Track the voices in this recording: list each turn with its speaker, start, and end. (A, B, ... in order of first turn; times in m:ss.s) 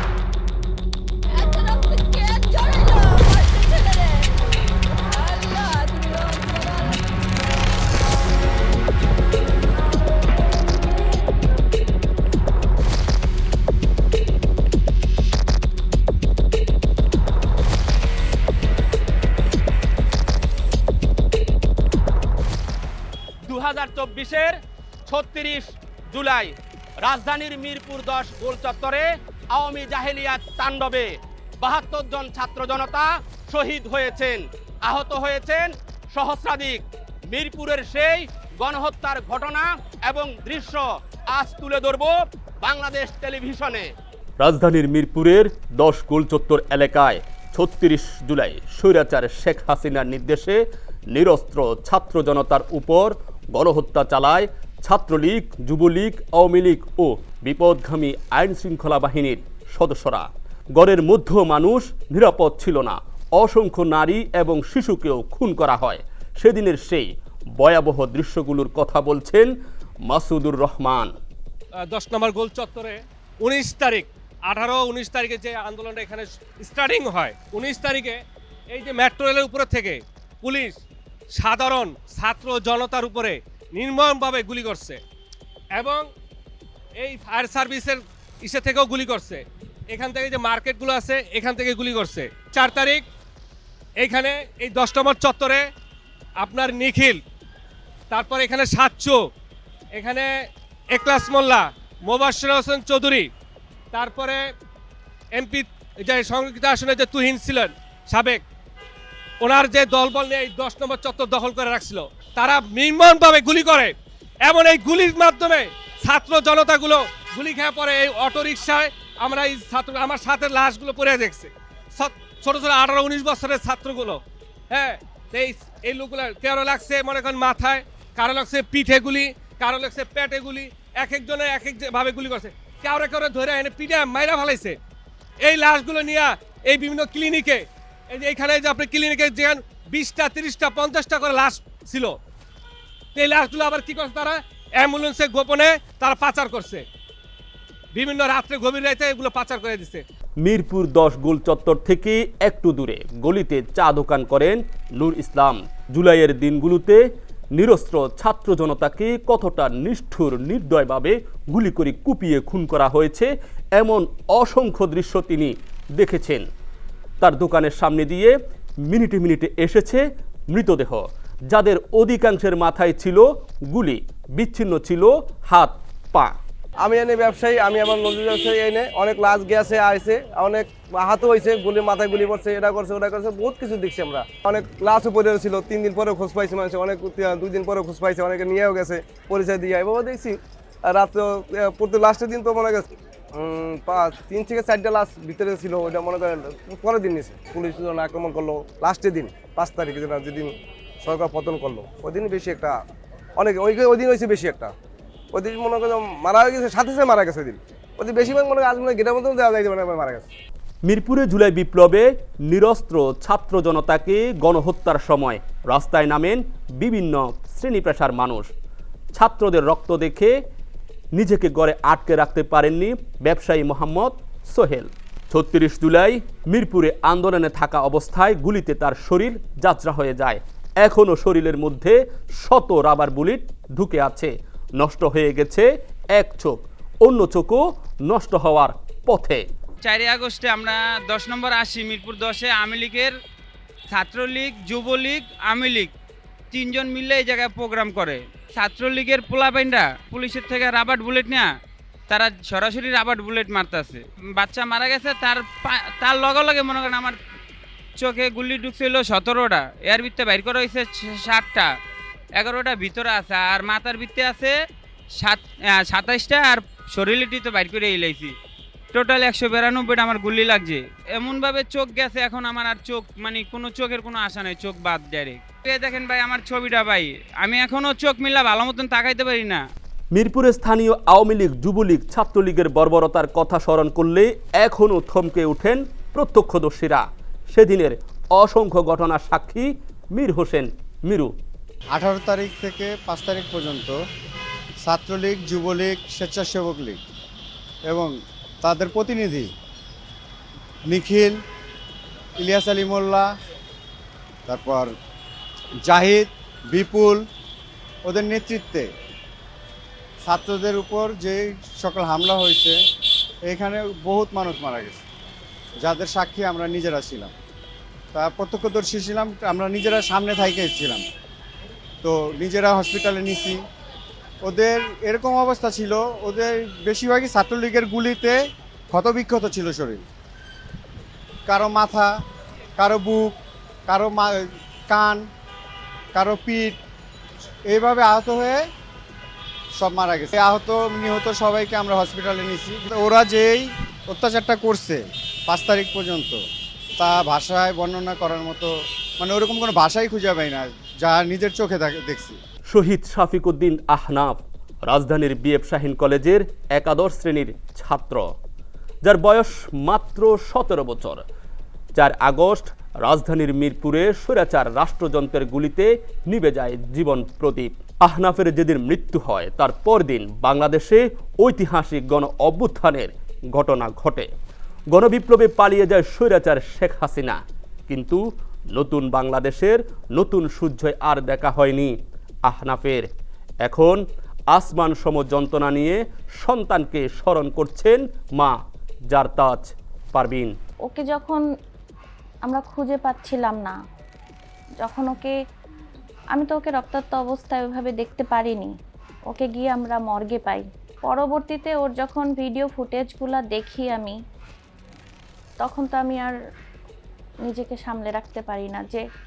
0:01.3-0:04.4 A
0:05.0-0:07.0 A
0:23.4-0:26.5 B
0:27.0-0:43.9 B
0:44.4-0:50.6 C
0:51.1-1:07.1 C
1:07.6-1:09.5 C
1:10.1-1:11.1 C
1:11.9-1:18.2 D
1:18.7-1:20.8 D
1:21.4-1:25.0 D
1:25.8-1:26.1 D
1:27.0-1:33.0 D
1:34.0-1:35.6 D
1:36.4-1:37.2 D
1:38.1-1:39.2 D
1:40.0-1:40.3 D
1:40.9-1:43.3 D
1:43.9-1:44.4 D
1:45.3-1:48.4 D
1:49.4-1:53.9 D
1:54.4-2:14.8 D
2:15.4-2:22.2 D
2:23.1-2:26.8 D
2:27.9-2:30.0 D
2:30.4-2:37.0 C
2:37.6-2:46.4 C
2:47.2-2:48.3 C
2:48.9-2:56.3 C
2:56.8-3:22.8 E
3:23.4-3:24.7 E
3:25.3-3:30.3 E
3:30.8-3:38.5 C
3:39.1-3:40.3 C
3:41.2-3:59.4 C
3:59.8-4:03.0 B
4:00.1-4:03.1 F
4:03.9-4:05.9 F
4:04.0-4:05.2 B
4:06.5-4:11.5 F
4:07.3-4:08.1 B
4:08.6-4:09.2 B
4:12.1-4:17.1 F
4:18.0-4:21.6 F
4:22.4-4:24.5 F
4:24.1-4:24.5 B
4:25.2-4:28.3 F
4:28.9-4:39.6 F
4:29.8-4:30.7 B
4:31.9-4:33.0 B
4:33.6-4:39.5 B
4:40.1-4:51.3 C
4:51.9-4:54.0 G
4:54.8-4:57.0 G
4:57.9-4:59.5 G
5:00.9-5:01.4 G
5:02.4-5:03.3 G
5:04.5-5:04.9 G
5:05.8-5:07.2 G
5:08.0-5:08.9 G
5:10.2-5:12.8 G
5:13.4-5:15.0 G
5:15.8-5:17.3 G
5:18.1-5:21.0 G
5:22.0-5:23.6 G
5:24.4-5:28.4 G
5:28.9-5:30.0 G
5:31.5-5:32.1 G
5:32.8-5:35.2 G
5:36.1-5:36.8 G
5:37.7-5:38.6 G
5:39.8-5:46.4 G
5:47.0-5:52.4 G
5:52.6-5:58.2 C
5:59.0-6:01.2 C
6:02.0-6:14.3 C
6:14.9-6:18.2 C
6:18.7-6:21.9 C
6:22.5-6:23.1 C
6:23.6-6:24.0 C
6:24.5-6:28.6 C
6:29.1-6:30.5 C
6:30.8-6:31.4 A
6:32.4-6:33.8 A
6:34.8-6:35.3 A
6:36.3-6:38.7 A
6:39.3-6:44.2 A
6:45.6-6:46.4 A
6:47.4-6:49.0 A